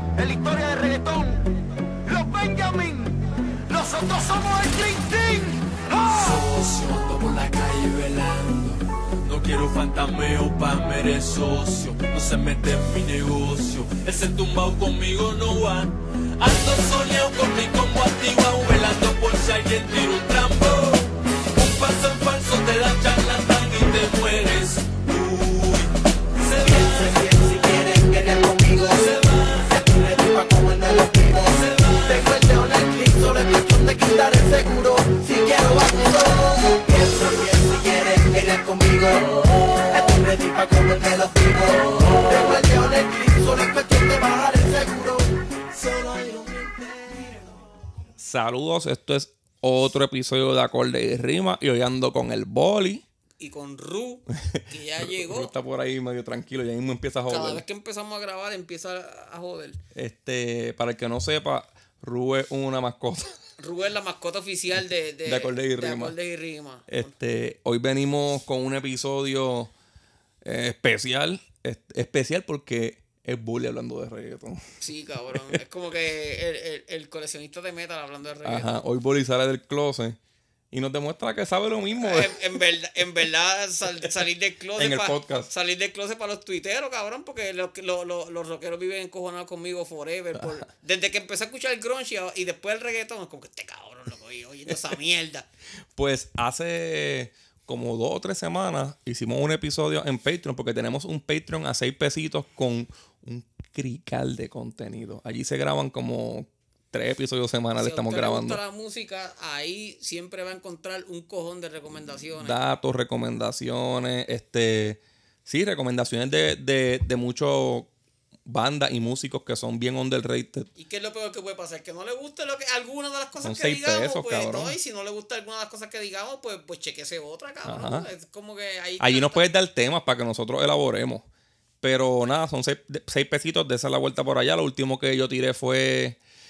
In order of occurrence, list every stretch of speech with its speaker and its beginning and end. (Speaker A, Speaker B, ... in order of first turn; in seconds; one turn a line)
Speaker A: 0.1-1.4
Speaker A: 2.0-3.1
Speaker A: 3.7-6.4
Speaker B: 6.1-21.0
Speaker B: 21.5-25.9
Speaker B: 26.4-27.4
Speaker B: 29.0-29.8
Speaker B: 31.6-32.2
Speaker C: 32.8-33.1
Speaker C: 36.9-39.4
Speaker C: 39.9-41.7
Speaker C: 42.2-45.2
Speaker C: 45.8-46.8
Speaker D: 48.2-53.0
Speaker E: 53.4-55.5
Speaker D: 54.5-57.6
Speaker E: 57.3-59.8
Speaker D: 59.9-63.3
Speaker E: 63.6-67.1
Speaker D: 65.2-66.1
Speaker D: 66.9-69.7
Speaker D: 70.4-74.6
Speaker E: 74.8-78.8
Speaker D: 78.4-80.2
Speaker D: 80.7-82.3
Speaker E: 82.0-95.5
Speaker D: 84.8-85.5
Speaker D: 90.3-90.7
Speaker D: 95.9-108.6
Speaker E: 107.8-112.6
Speaker D: 112.4-117.9
Speaker D: 118.5-120.7
Speaker E: 120.8-129.4
Speaker D: 123.4-124.7
Speaker D: 127.6-128.1
Speaker D: 129.0-131.3
Speaker D: 131.8-136.2